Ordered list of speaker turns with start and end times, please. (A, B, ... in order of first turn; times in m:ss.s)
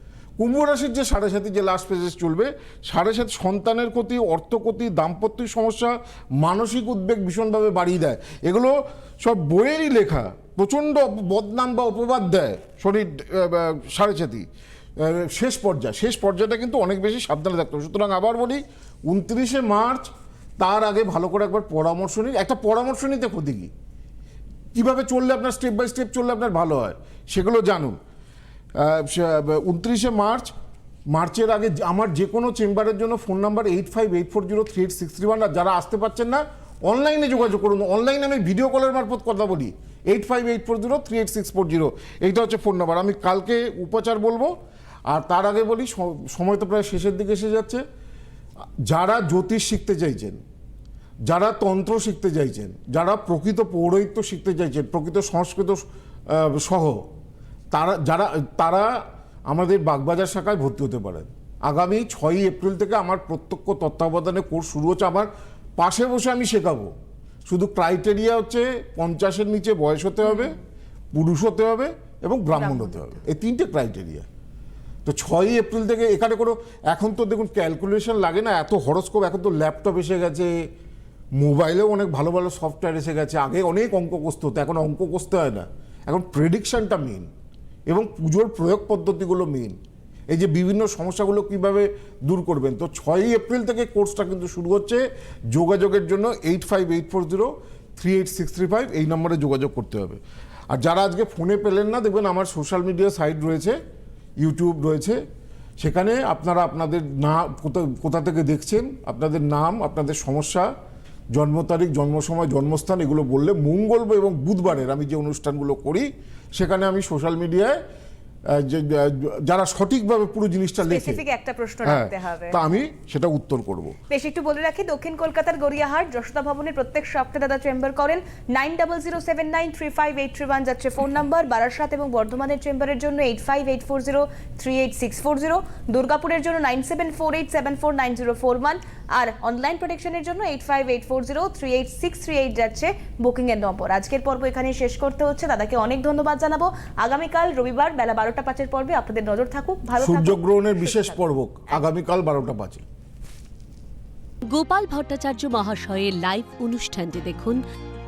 0:00.4-0:14.4 A
0:15.0-0:23.7 A
0:24.8-0:28.0 A
0:28.8-0:30.5 A
0:31.1-0:44.5 A
0:45.1-0:47.8 A
0:48.9-0:50.4 A
0:51.3-0:57.0 A
0:57.7-0:59.0 A
0:59.5-1:06.9 A
1:07.5-1:10.6 A
1:11.1-1:14.2 A
1:12.6-1:13.0 B
1:15.0-1:20.5 A
1:21.4-1:27.3 A
1:27.9-1:29.8 A
1:30.3-1:43.8 A
1:44.4-1:45.2 A
1:45.8-1:50.7 A
1:51.3-1:57.8 A
1:58.5-2:01.2 A
2:00.9-2:02.6 B
2:01.8-2:04.0 A
2:04.1-2:31.2 B
2:30.0-2:32.8 A
2:34.4-2:37.6 C